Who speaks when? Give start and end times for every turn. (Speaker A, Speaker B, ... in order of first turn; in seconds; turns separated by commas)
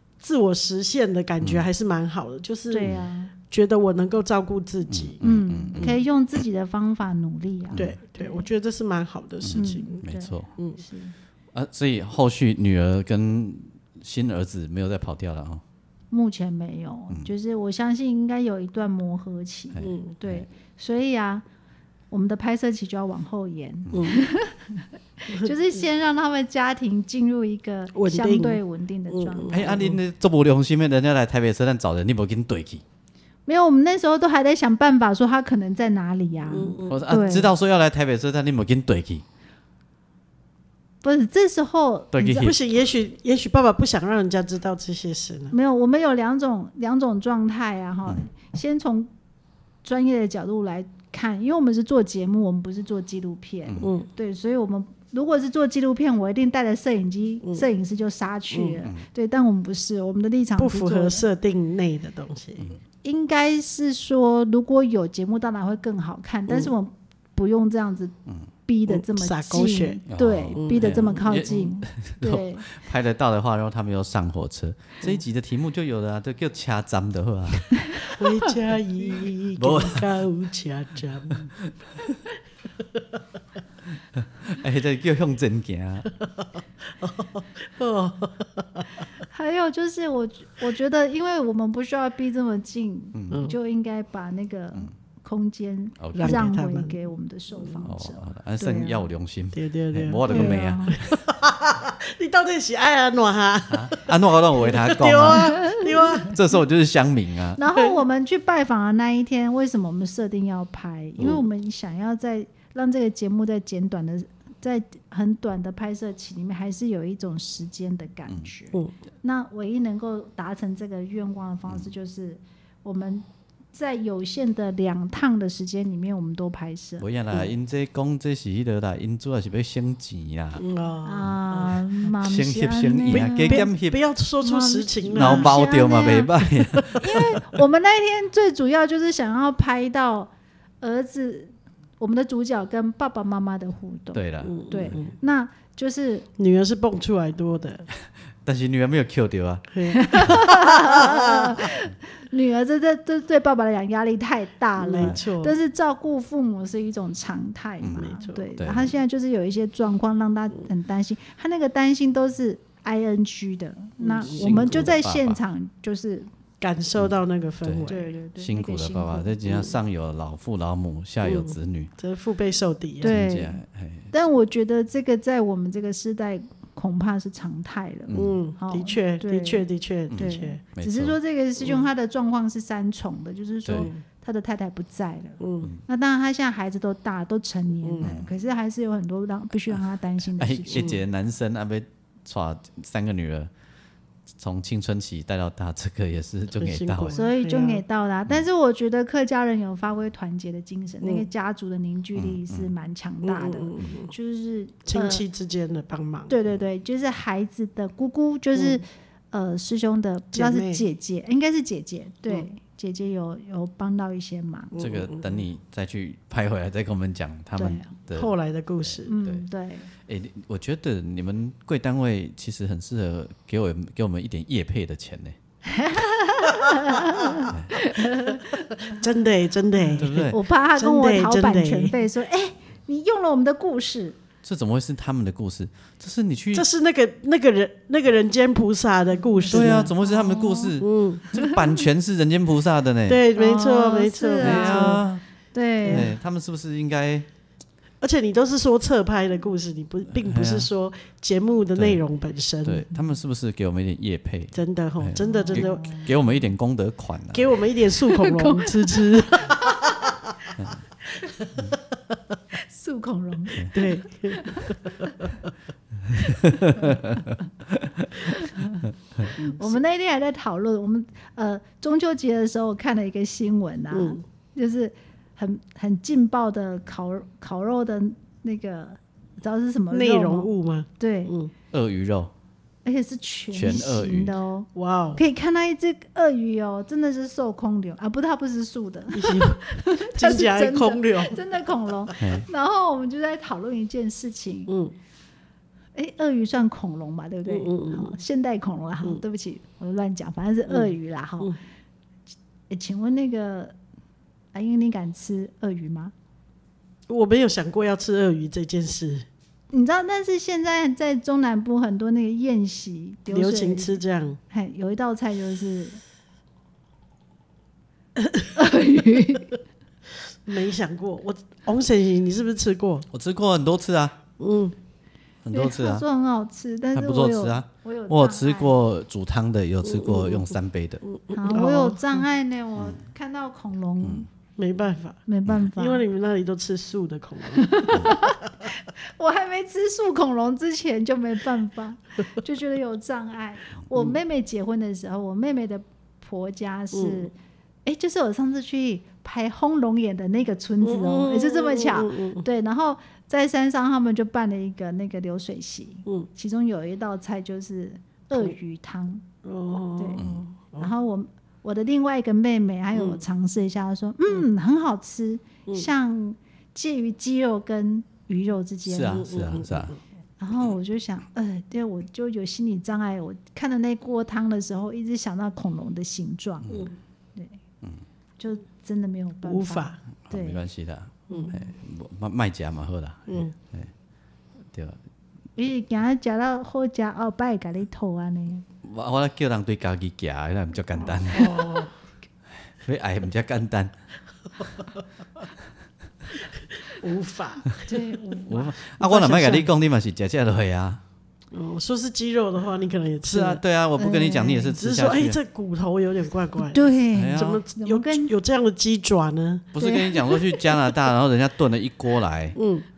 Speaker A: 0.2-2.9, Speaker B: 1.4-1.7, Speaker C: 2.7-3.3, Speaker A: 3.5-5.2, Speaker B: 4.9-5.9, Speaker C: 5.2-8.5, Speaker B: 7.7-8.0, Speaker A: 7.8-10.0, Speaker B: 9.4-10.5, Speaker C: 9.5-11.1, Speaker B: 11.5-15.6, Speaker C: 16.1-21.4, Speaker B: 19.7-20.4, Speaker A: 19.8-20.1, Speaker C: 22.1-29.9, Speaker A: 23.9-24.2, Speaker A: 27.9-30.0, Speaker B: 29.5-32.8, Speaker C: 33.5-37.5, Speaker A: 36.5-37.0, Speaker B: 36.9-39.2, Speaker C: 41.0-42.5, Speaker B: 42.1-42.5, Speaker A: 42.3-45.5, Speaker C: 45.5-49.1, Speaker C: 49.8-61.2, Speaker B: 53.6-53.9, Speaker A: 53.8-54.1, Speaker A: 58.5-58.8, Speaker A: 60.6-62.7, Speaker C: 63.0-68.1, Speaker A: 66.5-66.7, Speaker C: 68.7-72.7, Speaker A: 68.9-71.7, Speaker B: 70.1-77.7, Speaker C: 77.9-78.5, Speaker A: 78.1-81.5, Speaker B: 79.6-80.1, Speaker B: 84.2-86.1, Speaker A: 87.0-88.9, Speaker C: 89.3-99.1, Speaker B: 96.0-96.5, Speaker A: 96.2-97.0, Speaker B: 97.8-101.2, Speaker A: 99.5-106.4, Speaker C: 100.3-101.0, Speaker B: 103.7-107.6, Speaker C: 105.5-105.9, Speaker C: 107.6-127.0, Speaker A: 107.7-108.0, Speaker B: 127.0-130.6, Speaker A: 130.6-131.8, Speaker C: 131.0-133.7, Speaker B: 132.1-134.0, Speaker A: 133.1-135.5, Speaker C: 134.4-146.3, Speaker B: 135.1-137.2, Speaker A: 136.7-137.0, Speaker B: 144.1-145.0, Speaker A: 144.4-145.1, Speaker A: 146.4-147.9, Speaker B: 148.4-150.4, Speaker A: 149.7-151.7, Speaker C: 149.9-166.3, Speaker A: 154.8-155.6, Speaker B: 157.8-158.9, Speaker A: 158.0-158.5, Speaker A: 164.0-164.9, Speaker B: 164.3-165.4, Speaker A: 166.6-168.1, Speaker B: 167.0-171.9, Speaker C: 167.9-169.3, Speaker A: 169.5-169.7, Speaker A: 171.2-173.1, Speaker C: 173.0-190.9, Speaker B: 173.0-174.1, Speaker B: 178.1-178.4, Speaker A: 178.1-180.6, Speaker B: 180.1-181.2, Speaker B: 183.6-183.9, Speaker A: 183.8-184.0, Speaker A: 185.4-185.7, Speaker A: 187.8-188.1, Speaker B: 188.0-188.3, Speaker B: 190.4-193.5, Speaker A: 190.7-191.0, Speaker B: 194.4-197.2, Speaker A: 196.6-197.8, Speaker C: 197.1-205.2, Speaker B: 202.2-202.7, Speaker A: 203.2-204.1, Speaker A: 204.8-206.3, Speaker C: 206.3-214.7, Speaker A: 208.5-208.8, Speaker A: 210.3-210.8, Speaker A: 214.7-215.4, Speaker B: 214.8-219.4, Speaker C: 217.6-217.9, Speaker A: 218.1-219.1, Speaker C: 219.1-219.9, Speaker B: 220.1-225.3, Speaker C: 225.7-229.0, Speaker B: 227.5-227.7, Speaker A: 228.3-232.0, Speaker B: 229.9-230.4, Speaker C: 230.3-234.2, Speaker B: 234.4-236.7, Speaker A: 236.5-239.9, Speaker C: 239.4-240.8, Speaker B: 239.5-243.2, Speaker A: 240.8-241.3, Speaker C: 241.3-241.6, Speaker A: 243.1-245.0, Speaker C: 243.3-246.1, Speaker B: 244.4-245.2, Speaker A: 245.8-246.1, Speaker B: 245.9-247.2, Speaker A: 248.0-252.8, Speaker B: 250.1-250.7, Speaker B: 251.8-252.0, Speaker B: 252.6-257.6, Speaker A: 254.5-256.0, Speaker C: 255.2-256.1, Speaker A: 257.3-260.1, Speaker C: 258.1-259.8, Speaker C: 262.6-265.1, Speaker A: 263.7-265.3, Speaker B: 266.1-268.3, Speaker C: 266.8-267.2, Speaker C: 268.2-268.9, Speaker B: 268.8-269.3, Speaker A: 269.4-269.7, Speaker C: 269.4-281.3, Speaker A: 273.9-274.2, Speaker A: 279.9-281.5, Speaker B: 281.7-282.3, Speaker C: 282.8-294.7, Speaker B: 283.5-284.3, Speaker A: 284.7-285.2, Speaker A: 289.1-291.6, Speaker B: 292.2-292.4, Speaker A: 294.7-294.9, Speaker C: 295.9-301.6, Speaker A: 297.5-298.2, Speaker C: 302.7-303.7, Speaker C: 304.5-306.1, Speaker A: 307.1-309.2, Speaker C: 309.7-316.0, Speaker A: 313.3-314.4, Speaker A: 318.2-318.5, Speaker C: 318.5-319.5, Speaker A: 320.4-323.1, Speaker B: 323.1-324.2, Speaker A: 324.4-324.7, Speaker B: 325.4-326.0, Speaker C: 325.5-328.8, Speaker B: 326.9-331.0, Speaker A: 329.8-332.2, Speaker C: 331.3-334.3, Speaker A: 334.6-335.2, Speaker C: 335.3-336.0, Speaker A: 335.7-337.9, Speaker C: 337.5-347.3, Speaker A: 346.9-347.3, Speaker C: 347.9-359.2, Speaker A: 350.8-352.4, Speaker A: 359.4-360.9, Speaker C: 360.0-360.2, Speaker B: 360.2-360.4, Speaker C: 360.8-369.2, Speaker A: 362.9-363.2, Speaker B: 368.9-369.9, Speaker A: 369.1-370.0, Speaker C: 370.4-376.7, Speaker B: 376.6-376.9, Speaker C: 378.4-380.6, Speaker A: 379.4-380.0, Speaker B: 380.2-383.9, Speaker A: 381.3-381.6, Speaker C: 381.3-381.5, Speaker B: 384.7-385.0, Speaker C: 385.6-388.6, Speaker B: 388.8-391.6, Speaker C: 391.0-391.4, Speaker A: 391.3-391.9, Speaker B: 392.8-393.9, Speaker A: 396.8-398.3, Speaker C: 397.9-399.6, Speaker B: 398.5-401.0, Speaker A: 399.0-399.6, Speaker A: 401.5-403.6, Speaker B: 403.2-405.4, Speaker C: 404.0-404.8, Speaker A: 404.8-409.7, Speaker C: 406.6-408.3, Speaker B: 407.1-407.6, Speaker B: 409.7-412.6, Speaker C: 409.8-410.7, Speaker A: 412.6-412.8